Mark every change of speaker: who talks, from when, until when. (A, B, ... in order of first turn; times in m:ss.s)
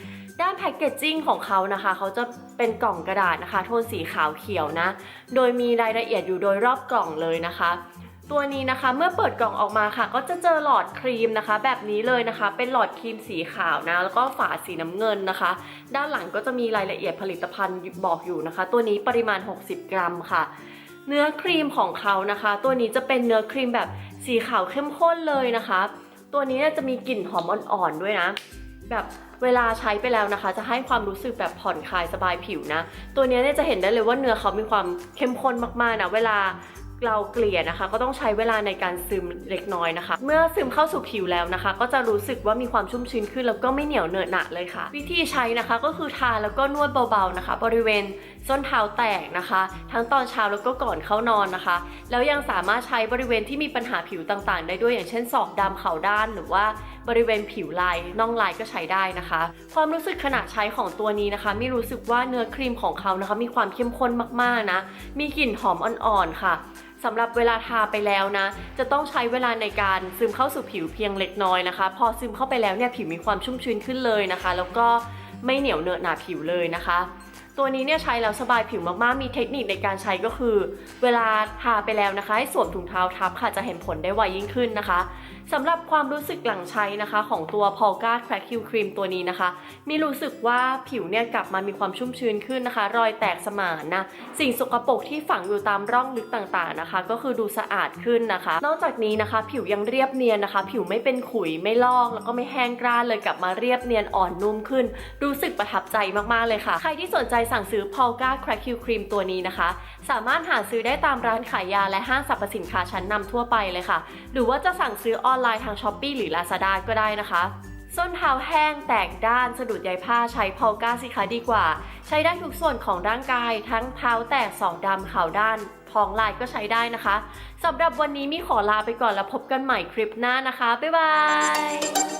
0:00.4-0:20.5 A
0:21.0-2:12.0 A